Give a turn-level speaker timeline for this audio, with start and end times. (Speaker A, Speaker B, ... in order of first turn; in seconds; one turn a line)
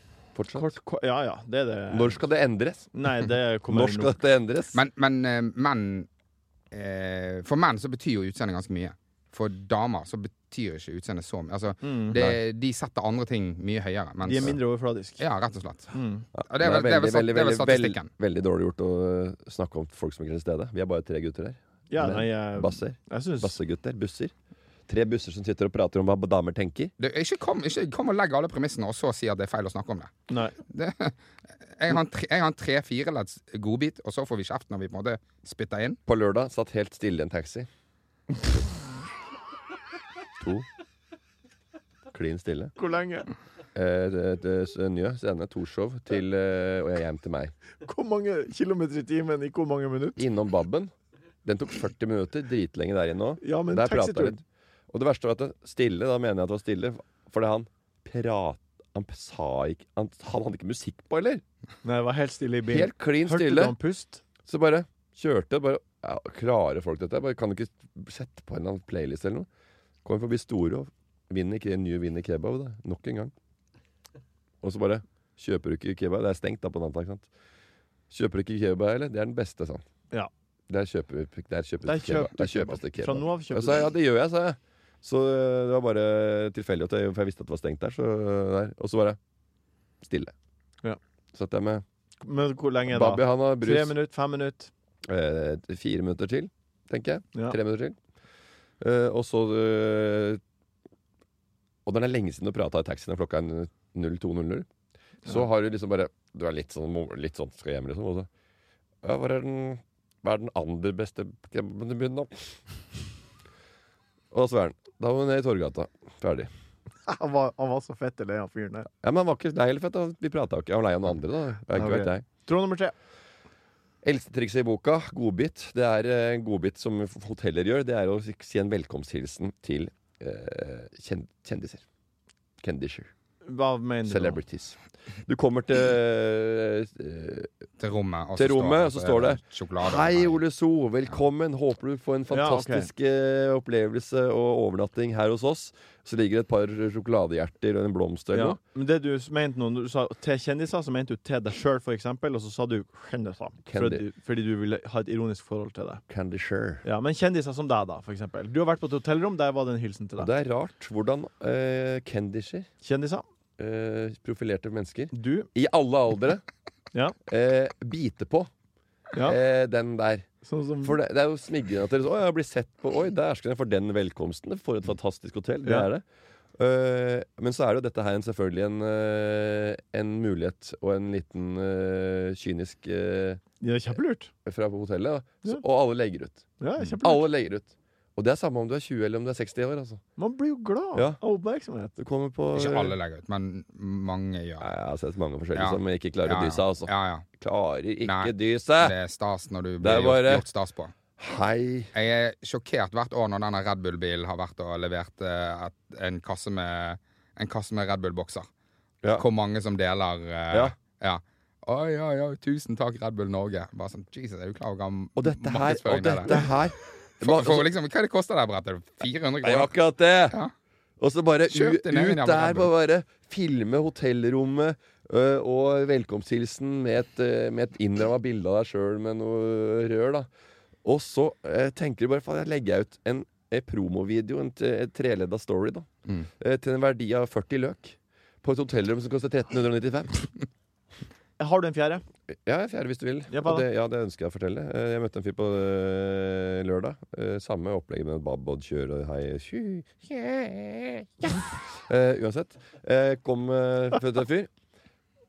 Speaker A: 0.3-0.7
Speaker B: 0.5-2.2
Speaker A: 1.9-2.9
Speaker B: 2.9-4.2
Speaker A: 3.7-4.8
Speaker C: 4.7-6.1
Speaker C: 6.7-14.6
Speaker B: 11.8-12.2
Speaker B: 14.2-15.2
Speaker C: 15.2-15.9
Speaker B: 15.9-16.2
Speaker A: 16.4-24.3
Speaker C: 16.5-18.1
Speaker B: 21.9-23.6
Speaker A: 24.9-26.9
Speaker C: 27.0-30.1
Speaker B: 30.3-30.6
Speaker C: 30.7-31.1
Speaker C: 31.7-36.0
Speaker A: 36.1-37.7
Speaker A: 40.4-40.6
Speaker A: 42.1-42.7
Speaker B: 42.8-43.3
Speaker A: 43.8-47.5
Speaker B: 47.8-50.2
Speaker A: 50.2-50.9
Speaker A: 51.4-61.4
Speaker B: 53.4-54.4
Speaker B: 61.8-64.2
Speaker A: 62.7-63.8
Speaker A: 64.4-69.5
Speaker A: 70.0-73.3
Speaker A: 74.6-77.3
Speaker A: 78.1-79.8
Speaker A: 80.7-89.2
Speaker B: 81.8-83.9
Speaker A: 90.0-90.3
Speaker A: 91.3-91.8
Speaker B: 92.2-94.7
Speaker A: 92.9-94.0
Speaker A: 95.1-98.0
Speaker A: 98.8-100.4
Speaker A: 101.9-104.7
Speaker A: 105.2-108.3
Speaker A: 109.0-112.6
Speaker A: 114.3-116.5
Speaker B: 117.1-118.9
Speaker A: 119.0-122.2
Speaker B: 121.7-122.9
Speaker A: 124.0-131.8
Speaker A: 132.6-133.1
Speaker B: 133.4-134.4
Speaker A: 134.1-137.5
Speaker C: 137.8-140.4
Speaker A: 138.4-148.6
Speaker B: 142.3-142.9
Speaker B: 148.3-156.0
Speaker A: 153.7-154.0
Speaker A: 156.1-156.8
Speaker B: 156.8-160.3
Speaker A: 160.2-162.7
Speaker B: 162.8-163.3
Speaker A: 163.6-166.4
Speaker B: 165.1-165.5
Speaker A: 167.3-168.5
Speaker A: 169.2-170.3
Speaker B: 170.4-171.0
Speaker A: 170.8-176.0
Speaker A: 176.6-183.4
Speaker B: 183.6-184.3
Speaker A: 184.4-186.4
Speaker B: 186.6-187.3
Speaker A: 187.0-190.0
Speaker B: 190.2-191.9
Speaker A: 191.9-192.9
Speaker C: 192.6-194.7
Speaker A: 194.6-198.9
Speaker C: 195.6-197.3
Speaker C: 198.0-200.9
Speaker A: 199.8-200.4
Speaker A: 201.2-201.9
Speaker C: 201.9-208.5
Speaker C: 209.1-216.5
Speaker A: 210.5-210.8
Speaker A: 215.2-217.7
Speaker C: 217.2-219.7
Speaker A: 219.4-220.4
Speaker A: 221.0-230.3
Speaker C: 221.5-222.7
Speaker A: 230.8-235.9
Speaker A: 236.4-240.3
Speaker B: 241.4-242.0
Speaker A: 242.3-254.5
Speaker B: 243.3-243.7